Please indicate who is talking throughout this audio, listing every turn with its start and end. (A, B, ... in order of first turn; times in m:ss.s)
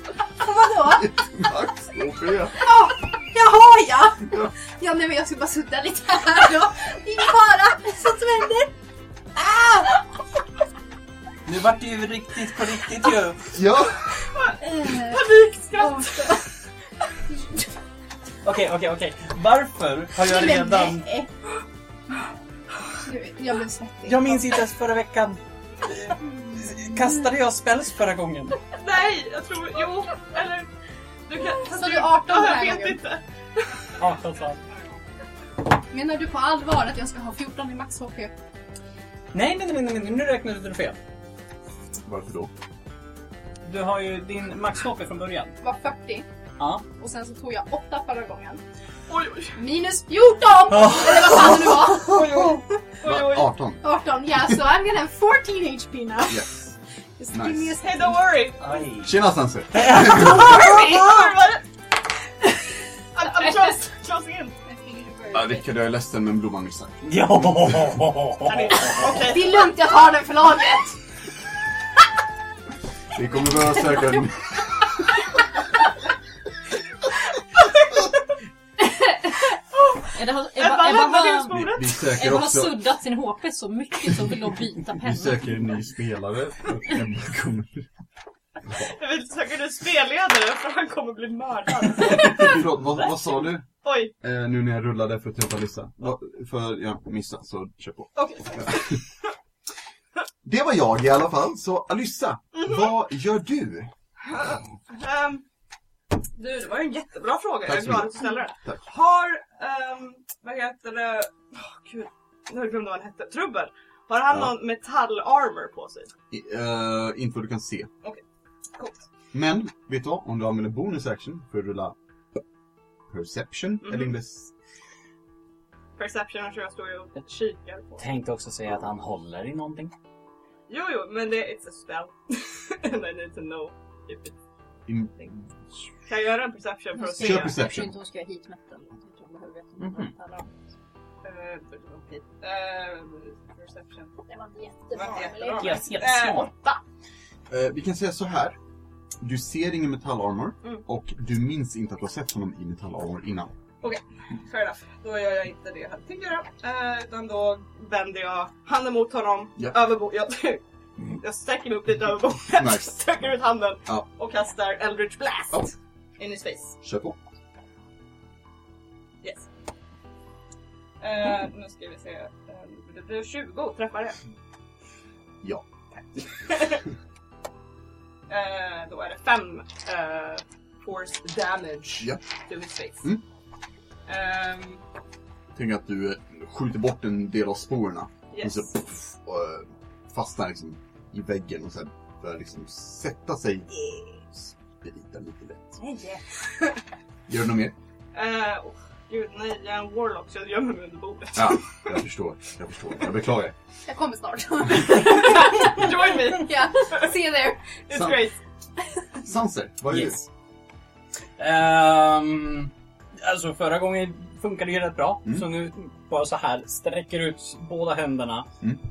0:00.4-0:01.1 A
0:00.8-0:02.6 B
0:02.6-0:08.7 A
0:09.4-0:10.0 A
0:11.5-0:13.5 C
0:13.5-0:14.1 B
0:14.3-0:16.4 D
0:14.5-0:16.6 A
0:17.3-0:17.7 A
0:18.4-0:21.1 C
0:20.2-0:21.3 A
0:23.0-0:24.6 A
0:24.0-0:28.6 C
0:28.7-0:30.7 D
0:31.3-0:33.8 D
0:31.6-0:33.0 A
0:34.0-0:34.6 C
0:35.8-0:38.3 A
0:39.3-0:41.0 C
0:42.1-0:42.5 B
0:43.6-0:45.6 C
0:45.6-0:46.3 A
0:47.0-0:48.6 A
0:49.1-0:49.6 D
0:49.6-0:52.8 A
0:50.7-0:51.9 C
0:52.0-0:53.5 D
0:53.0-0:53.8 B
0:53.8-0:56.4 A
0:56.3-0:56.8 B
0:57.2-0:58.5 A
0:57.3-0:57.8 B
0:57.8-0:58.8 D
0:58.6-0:59.2 C
0:59.0-1:00.6 B
0:59.7-1:01.1 C
1:00.0-1:01.6 D
1:03.2-1:04.6 D
1:04.6-1:05.7 A
1:05.3-1:07.8 B
1:07.0-1:09.0 C
1:08.4-1:09.7 D
1:09.0-1:11.0 A
1:13.1-1:15.2 B
1:18.9-1:19.3 E
1:20.1-1:25.4 E
1:20.6-1:21.9 D
1:21.5-1:22.8 B
1:24.9-1:27.9 B
1:28.7-1:32.7 D
1:32.2-1:33.7 B
1:33.7-1:34.1 D
1:34.2-1:38.8 B
1:38.2-1:39.1 D
1:40.4-1:43.9 B
1:44.3-1:45.4 D
1:46.4-1:56.1 D
1:47.6-1:48.8 B
1:56.3-1:57.9 B
1:58.8-1:59.0 D
1:59.3-2:02.0 B
2:03.1-2:04.5 B
2:03.8-2:04.1 D
2:06.0-2:08.1 D
2:08.0-2:09.9 C
2:10.7-2:14.4 D
2:14.9-2:15.9 B
2:16.1-2:17.6 D
2:17.0-2:20.6 E
2:17.2-2:17.9 B
2:19.8-2:20.1 C
2:21.2-2:24.2 D
2:24.3-2:25.8 A
2:25.0-2:26.8 D
2:25.0-2:25.4 E
2:25.4-2:26.5 C
2:27.5-2:28.6 B
2:29.2-2:33.5 B
2:33.8-2:40.6 D
2:41.2-2:46.8 D
2:42.5-2:42.9 B
2:46.8-2:47.2 B
2:49.2-2:49.5 D
2:51.0-2:54.2 D
2:55.9-2:56.8 D
2:58.3-3:03.2 D
3:04.1-3:04.8 D
3:05.5-3:13.7 B
3:08.3-3:08.7 D
3:14.4-3:15.8 B
3:15.8-3:16.8 D
3:17.3-3:17.8 B
3:18.1-3:22.0 D
3:21.4-3:23.6 B
3:23.9-3:27.7 A
3:25.2-3:27.1 D
3:27.9-3:28.4 D
3:27.9-3:28.2 B
3:29.2-3:30.3 B
3:29.9-3:30.2 C
3:31.4-3:38.5 C